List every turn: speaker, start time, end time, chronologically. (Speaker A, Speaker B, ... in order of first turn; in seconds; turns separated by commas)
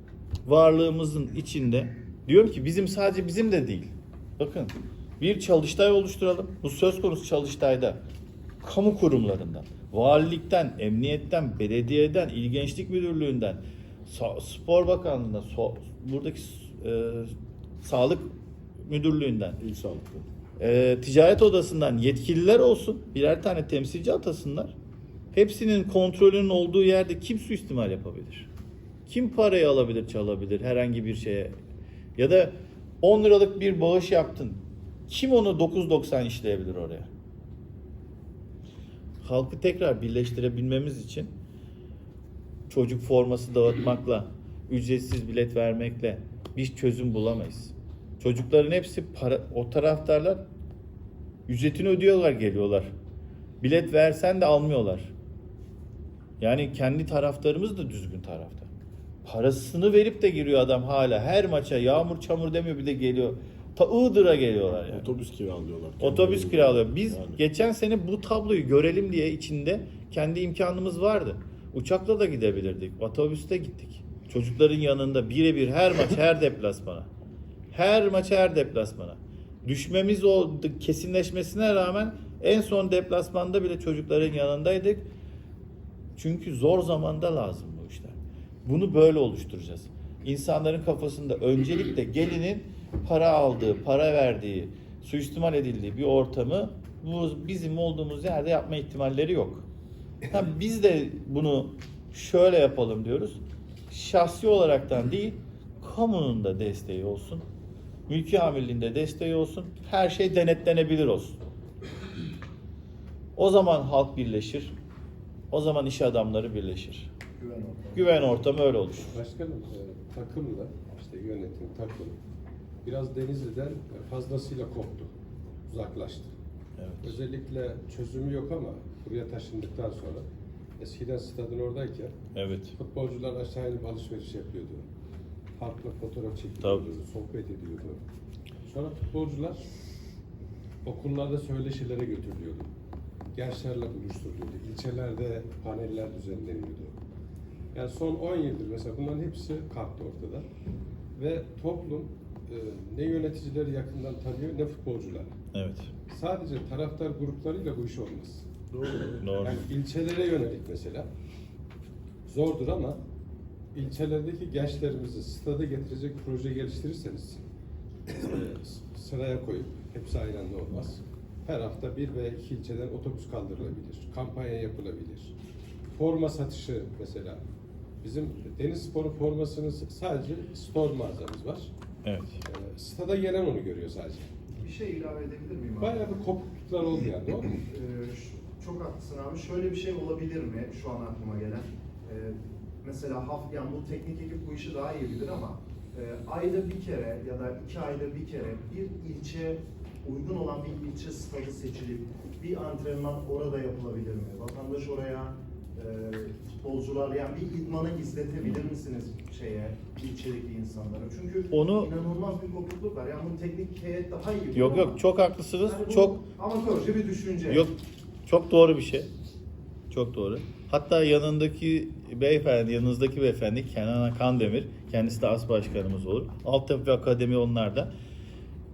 Speaker A: 0.5-8.0, Speaker A: 8.6-18.3, Speaker A: 18.9-19.6, Speaker B: 19.6-20.2, Speaker A: 20.6-24.7, Speaker A: 25.3-28.5, Speaker A: 29.1-31.6, Speaker A: 32.2-37.1, Speaker A: 39.2-41.3, Speaker A: 42.7-50.4, Speaker A: 51.5-52.9, Speaker A: 53.6-55.1, Speaker A: 56.4-58.7, Speaker A: 59.2-65.1, Speaker B: 64.9-67.2, Speaker A: 66.0-77.1, Speaker A: 77.7-85.1, Speaker A: 86.2-99.7, Speaker A: 100.3-107.4, Speaker A: 108.1-111.4, Speaker A: 113.4-114.7, Speaker A: 115.5-117.1, Speaker C: 117.4-118.4, Speaker A: 117.9-119.2, Speaker D: 119.1-122.2, Speaker D: 122.8-125.1, Speaker D: 125.7-126.3, Speaker A: 126.8-127.2, Speaker D: 127.0-130.2, Speaker D: 130.8-132.2, Speaker A: 132.3-132.8, Speaker D: 132.8-134.9, Speaker D: 135.6-138.0, Speaker A: 136.6-136.8, Speaker D: 138.7-139.7, Speaker D: 140.8-142.7, Speaker D: 143.3-147.0, Speaker D: 147.7-150.5, Speaker D: 151.2-155.3, Speaker A: 155.5-155.9, Speaker D: 156.1-161.1, Speaker A: 159.2-159.6, Speaker D: 162.3-163.0, Speaker D: 163.7-167.4, Speaker D: 168.1-175.3, Speaker D: 175.9-177.4, Speaker D: 178.0-181.7, Speaker A: 182.0-182.4, Speaker D: 182.4-184.3, Speaker C: 184.6-186.1, Speaker D: 185.8-187.6, Speaker C: 187.7-215.0, Speaker A: 211.5-211.9, Speaker A: 214.5-216.2, Speaker C: 215.7-217.7, Speaker A: 217.5-219.1, Speaker A: 219.9-227.9